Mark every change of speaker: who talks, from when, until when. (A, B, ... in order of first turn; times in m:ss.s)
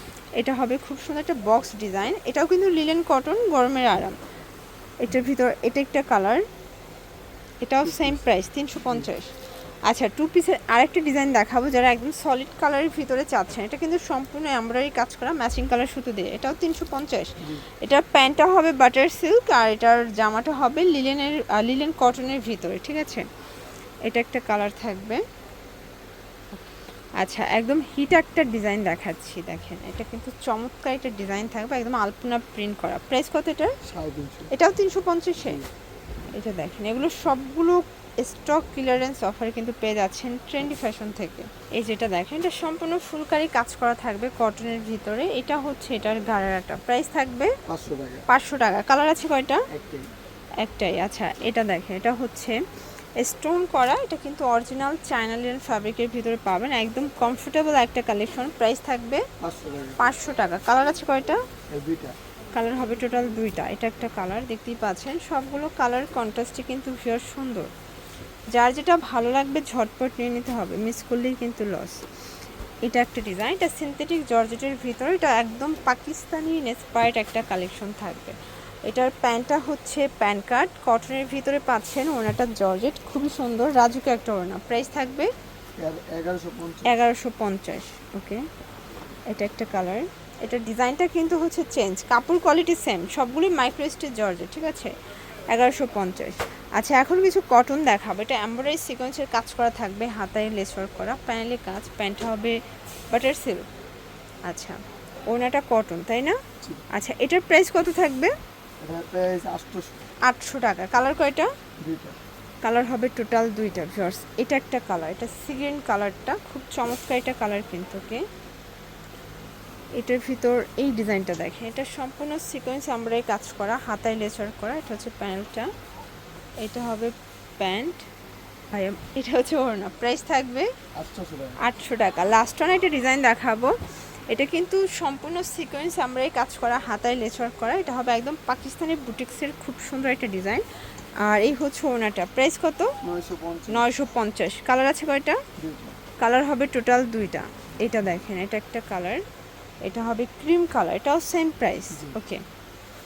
0:00.4-0:04.2 A
0:05.0-0:06.4 A
0:07.6-0:09.3 A
0:07.8-0:08.2 B
0:09.8-0:23.3 A
0:24.0-0:25.2 A
0:27.2-0:33.8 A
0:33.8-0:34.5 B
0:34.5-0:35.6 A
0:36.3-0:47.6 A
0:47.7-0:48.3 B
0:48.3-0:49.7 A
0:49.7-0:50.1 B
0:50.6-0:52.6 A
0:53.2-0:59.3 A
0:59.4-1:00.1 B
1:00.0-1:01.4 A
1:01.7-1:02.2 B
1:02.5-1:07.7 A
1:08.5-1:12.0 A
1:12.8-1:25.3 A
1:25.8-1:27.0 B
1:26.8-1:28.5 A
1:29.3-1:34.9 A
1:35.5-1:43.7 A
1:44.5-1:48.4 A
1:48.8-1:50.1 B
1:50.2-1:51.5 A
1:51.8-1:52.2 B
1:52.6-1:58.3 A
2:00.0-2:05.7 A
2:06.6-2:08.1 A
2:08.7-2:10.8 A
2:10.9-2:11.6 B
2:11.6-2:20.6 A
2:21.2-2:23.0 A
2:23.0-2:23.9 B
2:23.7-2:25.4 A
2:25.6-2:26.0 B
2:26.2-2:29.2 A
2:29.8-2:32.4 A